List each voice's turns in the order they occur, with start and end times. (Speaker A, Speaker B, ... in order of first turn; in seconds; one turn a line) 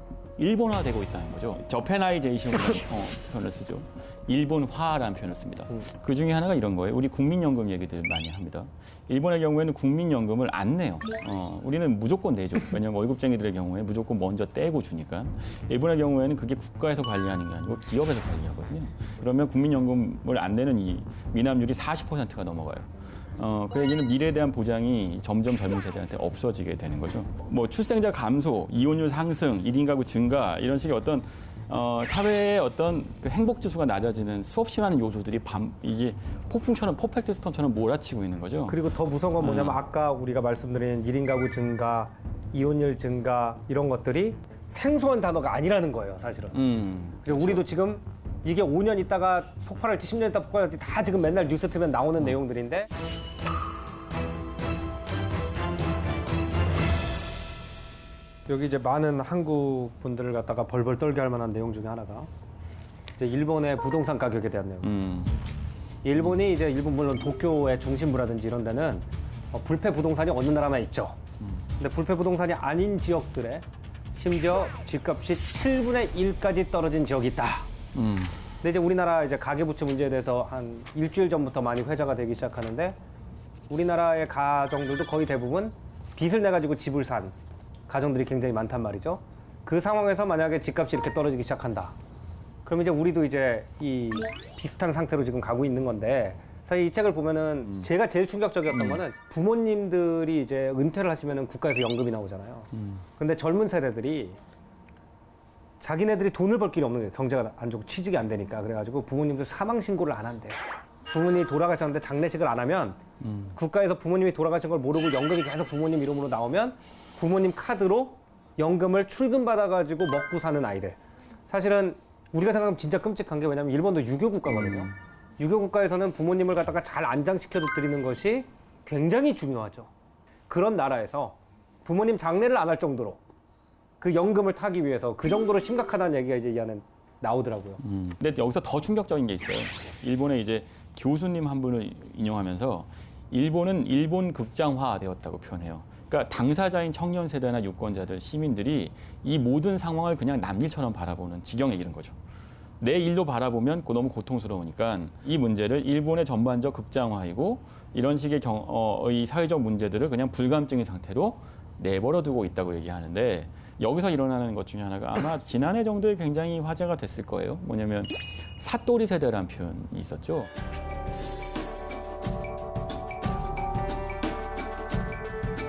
Speaker A: 0.4-38.8
Speaker B: 38.7-46.7
Speaker A: 39.4-39.8
Speaker A: 46.5-47.6
Speaker B: 47.2-52.9
Speaker B: 58.5-62.3
Speaker B: 63.2-64.9
Speaker A: 64.8-65.4
Speaker B: 66.0-71.2
Speaker B: 71.8-77.7
Speaker A: 77.9-78.3
Speaker B: 78.6-83.0
Speaker B: 83.7-87.3
Speaker B: 87.9-91.9
Speaker B: 92.6-104.4
Speaker A: 98.7-99.0
Speaker B: 105.8-113.0
Speaker A: 113.2-113.5
Speaker B: 113.5-129.9
Speaker B: 130.5-133.2
Speaker B: 134.0-137.8
Speaker A: 137.8-152.2
Speaker A: 152.8-170.5